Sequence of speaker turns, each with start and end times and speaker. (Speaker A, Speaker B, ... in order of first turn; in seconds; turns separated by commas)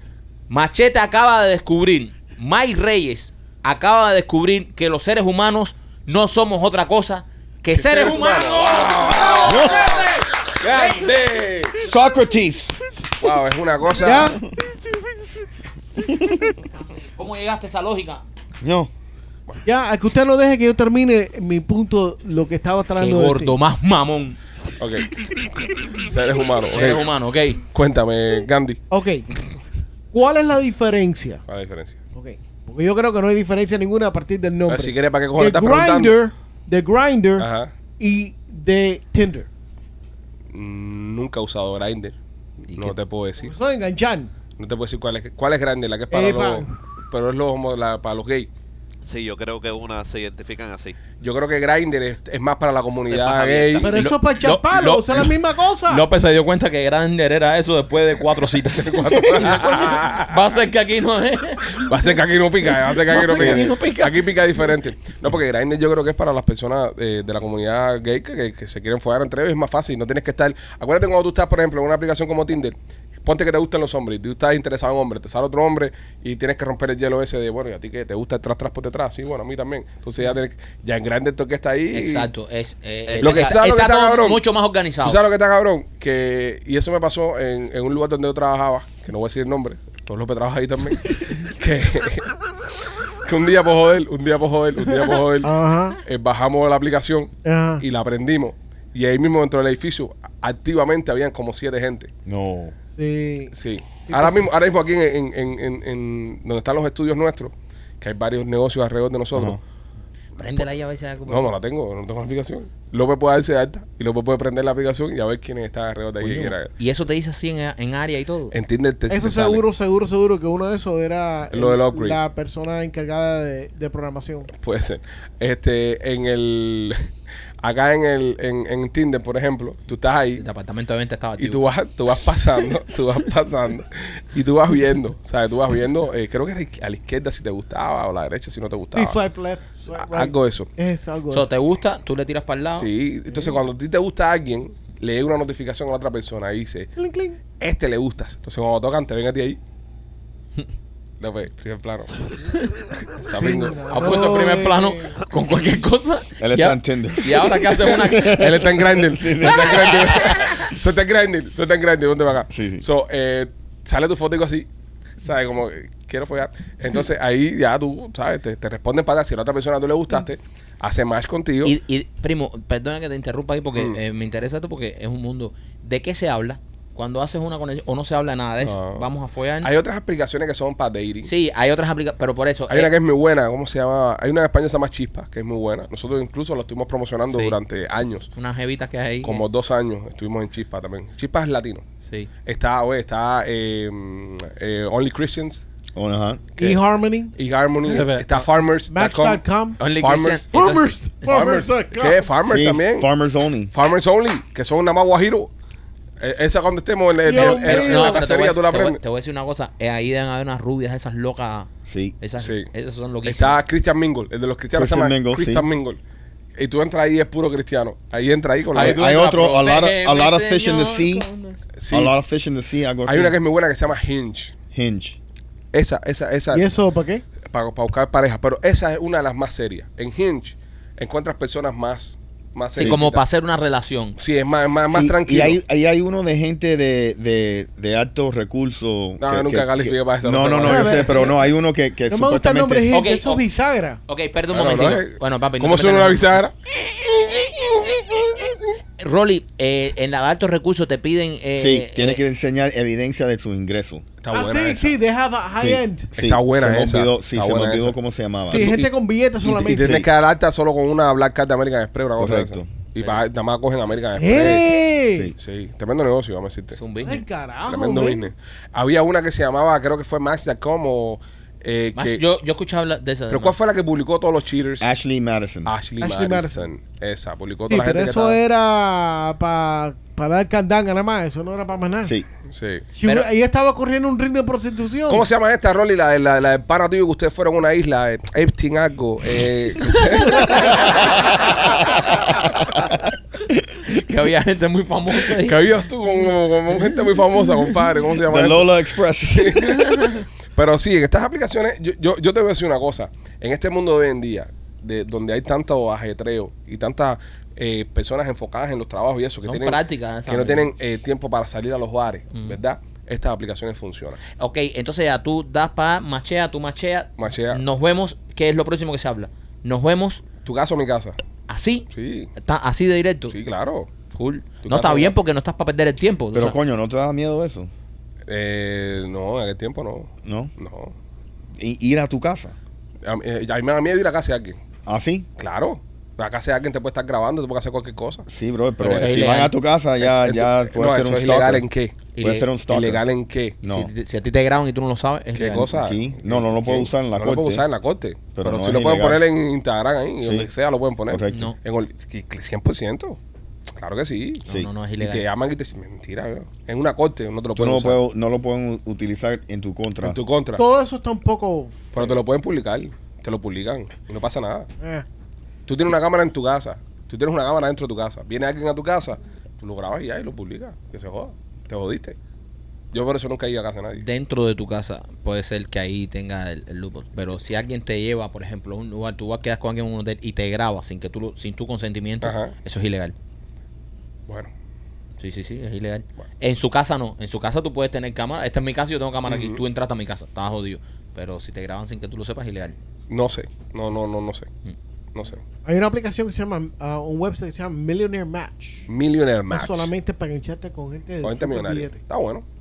Speaker A: 0.5-11.1, Speaker B: 7.7-11.8, Speaker C: 9.4-9.9, Speaker C: 11.8-13.0, Speaker B: 13.2-14.4, Speaker D: 14.0-15.4, Speaker C: 16.0-16.5, Speaker A: 16.8-18.2, Speaker C: 18.6-18.9, Speaker D: 19.6-23.6, Speaker A: 22.9-24.4, Speaker B: 24.8-27.0, Speaker A: 26.7-27.6, Speaker B: 27.7-28.8, Speaker D: 28.9-29.3, Speaker D: 30.1-31.4, Speaker B: 31.4-32.0, Speaker D: 32.1-37.5, Speaker B: 34.7-36.2, Speaker B: 37.4-37.7, Speaker D: 38.0-39.5, Speaker B: 40.5-42.2, Speaker A: 42.7-43.0, Speaker B: 42.7-43.5, Speaker D: 43.4-44.3, Speaker B: 44.6-48.5, Speaker D: 46.1-46.7, Speaker E: 49.0-51.0, Speaker B: 51.2-54.0, Speaker E: 53.1-53.9, Speaker D: 53.8-56.0, Speaker A: 53.9-55.3, Speaker A: 55.9-61.8, Speaker B: 58.7-60.6, Speaker B: 61.7-82.3, Speaker A: 63.0-64.3, Speaker A: 81.9-85.2, Speaker E: 83.0-83.5, Speaker B: 83.2-84.4, Speaker B: 85.0-92.3, Speaker B: 93.2-95.5, Speaker D: 95.4-96.0, Speaker B: 96.0-102.1, Speaker D: 97.4-97.8, Speaker C: 102.2-102.7, Speaker D: 102.9-104.5, Speaker B: 103.5-109.6, Speaker C: 109.3-109.6, Speaker A: 110.3-111.5, Speaker B: 111.3-116.7, Speaker A: 116.2-118.5, Speaker B: 118.5-119.6, Speaker D: 119.1-124.5, Speaker B: 121.5-122.2, Speaker B: 124.5-127.0, Speaker B: 127.6-130.4, Speaker A: 130.4-131.6, Speaker B: 131.4-139.2, Speaker D: 138.9-141.5, Speaker B: 139.9-140.7, Speaker A: 141.3-142.9, Speaker B: 142.8-146.9, Speaker D: 147.0-147.4, Speaker B: 147.5-149.6, Speaker B: 151.2-152.1, Speaker B: 153.1-154.0, Speaker D: 153.3-155.2, Speaker A: 153.9-158.6, Speaker C: 156.4-160.1, Speaker B: 158.3-164.7, Speaker A: 159.4-160.7, Speaker C: 162.5-162.8, Speaker B: 165.2-171.8, Speaker A: 171.6-179.7, Speaker B: 178.6-179.1, Speaker B: 179.6-181.3, Speaker A: 181.2-182.9, Speaker B: 182.7-188.3, Speaker A: 187.3-187.6, Speaker A: 188.3-189.4, Speaker B: 189.2-191.8, Speaker B: 192.4-195.7, Speaker C: 195.9-196.5, Speaker B: 196.6-196.8, Speaker D: 196.6-197.3, Speaker B: 197.3-200.5, Speaker A: 197.8-198.4, Speaker D: 198.9-199.8, Speaker A: 199.8-201.5, Speaker D: 200.5-202.3, Speaker B: 201.2-203.1, Speaker C: 202.4-203.7, Speaker B: 203.7-205.5, Speaker B: 206.2-209.0, Speaker D: 207.2-208.3, Speaker A: 207.3-211.7, Speaker C: 211.9-212.2, Speaker A: 212.2-213.6, Speaker B: 212.4-212.7, Speaker B: 213.2-216.0, Speaker C: 214.7-215.7, Speaker B: 216.6-219.1, Speaker A: 218.7-221.6, Speaker C: 218.7-221.3, Speaker B: 221.8-222.1, Speaker C: 221.9-223.3, Speaker B: 223.1-224.5, Speaker C: 224.7-225.2, Speaker B: 225.7-226.7, Speaker D: 226.5-227.2, Speaker B: 227.4-233.2, Speaker A: 232.7-234.2, Speaker B: 234.2-235.6, Speaker C: 234.9-242.9, Speaker B: 239.2-241.3, Speaker D: 240.6-241.3, Speaker D: 242.1-244.0, Speaker A: 242.9-243.4, Speaker A: 244.1-246.4, Speaker B: 244.5-246.5, Speaker A: 247.1-248.4, Speaker A: 249.0-252.2, Speaker C: 251.6-254.0, Speaker B: 254.2-254.9, Speaker D: 254.3-256.1, Speaker C: 255.5-258.8, Speaker B: 256.2-257.9, Speaker D: 258.5-260.0, Speaker B: 258.5-258.9, Speaker B: 259.4-264.8, Speaker C: 259.6-260.1, Speaker C: 262.2-262.7, Speaker D: 264.1-265.3, Speaker C: 265.1-265.3, Speaker B: 265.4-266.8, Speaker A: 266.7-267.2, Speaker D: 267.0-268.3, Speaker B: 267.6-272.2, Speaker A: 271.9-273.6, Speaker B: 273.3-274.9, Speaker C: 274.8-275.7, Speaker B: 275.6-278.4, Speaker D: 276.0-276.7, Speaker D: 277.7-282.1, Speaker C: 282.0-282.3, Speaker B: 282.5-282.9, Speaker D: 282.9-285.2, Speaker A: 283.0-283.3, Speaker B: 285.1-291.3, Speaker A: 290.2-291.6, Speaker A: 293.9-295.6, Speaker B: 295.3-298.7, Speaker C: 298.3-299.7, Speaker B: 299.3-314.2, Speaker A: 299.6-300.2, Speaker A: 309.4-310.7, Speaker A: 312.3-312.6, Speaker A: 314.4-320.2, Speaker B: 317.2-317.6, Speaker B: 320.4-321.2, Speaker A: 321.5-323.4, Speaker B: 321.9-322.3, Speaker B: 323.3-323.9, Speaker A: 324.1-326.6, Speaker B: 324.6-325.2, Speaker C: 326.3-327.7, Speaker B: 328.3-330.9, Speaker C: 330.2-330.5, Speaker C: 331.6-332.5, Speaker B: 333.0-334.6, Speaker C: 334.9-335.3, Speaker B: 335.4-338.2, Speaker C: 338.3-341.6, Speaker A: 338.8-339.6, Speaker B: 338.9-339.2, Speaker B: 340.0-342.1, Speaker A: 342.1-342.4, Speaker C: 342.2-343.0, Speaker B: 342.6-343.6, Speaker C: 343.6-343.9, Speaker A: 343.6-345.7, Speaker B: 345.3-353.2, Speaker C: 345.7-347.6, Speaker C: 348.3-349.2, Speaker C: 350.2-350.5, Speaker C: 351.1-351.5, Speaker B: 353.8-354.4, Speaker A: 354.5-355.2, Speaker B: 355.0-358.0, Speaker C: 357.5-360.2, Speaker B: 360.0-360.6, Speaker D: 360.6-362.1, Speaker B: 361.9-364.7, Speaker D: 364.8-365.1, Speaker B: 365.6-372.1, Speaker B: 372.9-374.0, Speaker A: 373.9-383.1, Speaker B: 382.2-382.5, Speaker A: 385.2-392.8, Speaker B: 389.2-389.6, Speaker B: 393.1-394.5, Speaker B: 395.1-395.4, Speaker D: 395.6-398.9, Speaker B: 398.9-399.9, Speaker D: 399.5-402.0, Speaker B: 401.2-402.4